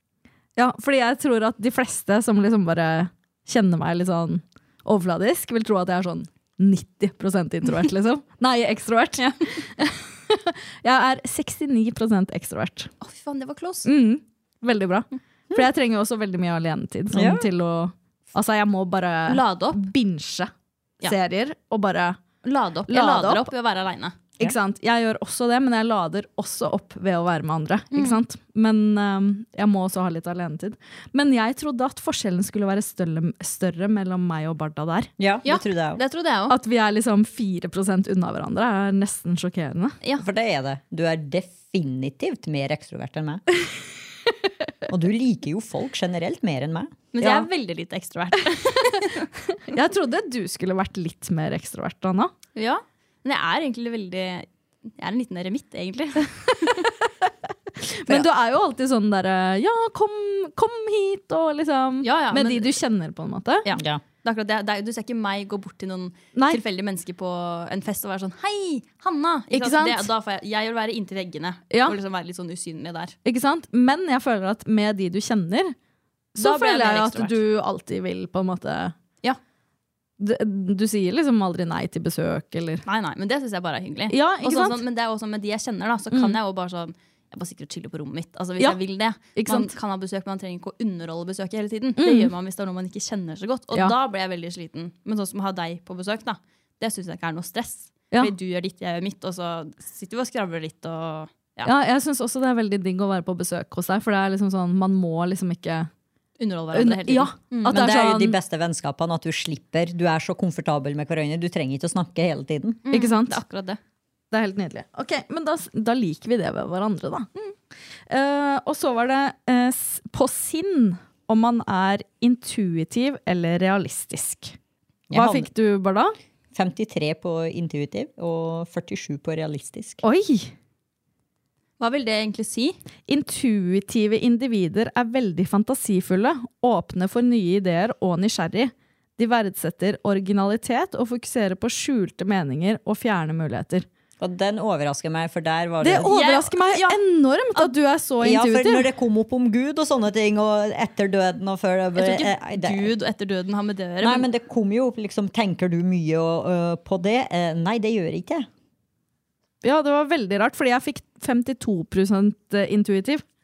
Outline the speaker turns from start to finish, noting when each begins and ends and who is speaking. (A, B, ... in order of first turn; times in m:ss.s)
0:00.6-0:12.9 A
0:13.0-0:13.9 B
0:13.8-0:20.5 A
0:17.1-0:17.4 C
0:19.3-0:19.8 B
0:21.0-0:22.2 A
0:22.4-0:24.2 B
0:22.9-0:23.5 A
0:24.4-0:35.1 A
0:27.9-0:28.2 B
0:35.2-0:36.0 C
0:35.4-0:36.5 B
0:36.5-0:39.9 A
0:40.2-0:43.4 C
0:44.9-0:47.0 C
0:47.1-0:49.3 B
0:49.6-0:52.3 A
0:52.6-0:54.5 B
0:55.0-0:56.8 B
0:57.8-1:03.6 A
1:02.0-1:02.8 B
1:03.6-1:13.1 B
1:03.7-1:04.0 C
1:06.3-1:06.6 A
1:09.5-1:10.1 A
1:11.7-1:12.0 A
1:13.2-1:15.7 A
1:16.3-1:19.0 A
1:16.4-1:17.4 B
1:20.2-1:22.8 A
1:22.8-1:41.7 B
1:24.1-1:24.8 A
1:26.1-1:26.4 A
1:29.3-1:29.7 A
1:32.0-1:32.3 A
1:41.6-1:45.9 A
1:46.4-1:47.8 B
1:46.7-1:48.4 A
1:47.7-1:52.8 C
1:52.8-1:53.8 B
1:52.9-1:53.4 A
1:54.3-1:57.3 A
1:58.1-2:04.6 A
2:05.1-2:05.5 C
2:05.1-2:06.2 A
2:06.5-2:10.0 C
2:10.0-2:10.5 A
2:11.8-2:12.8 B
2:13.1-2:23.8 A
2:24.2-2:26.1 C
2:25.8-2:28.9 A
2:26.0-2:27.0 B
2:28.2-2:32.9 C
2:31.9-2:34.3 B
2:34.0-2:38.5 C
2:39.6-2:43.2 A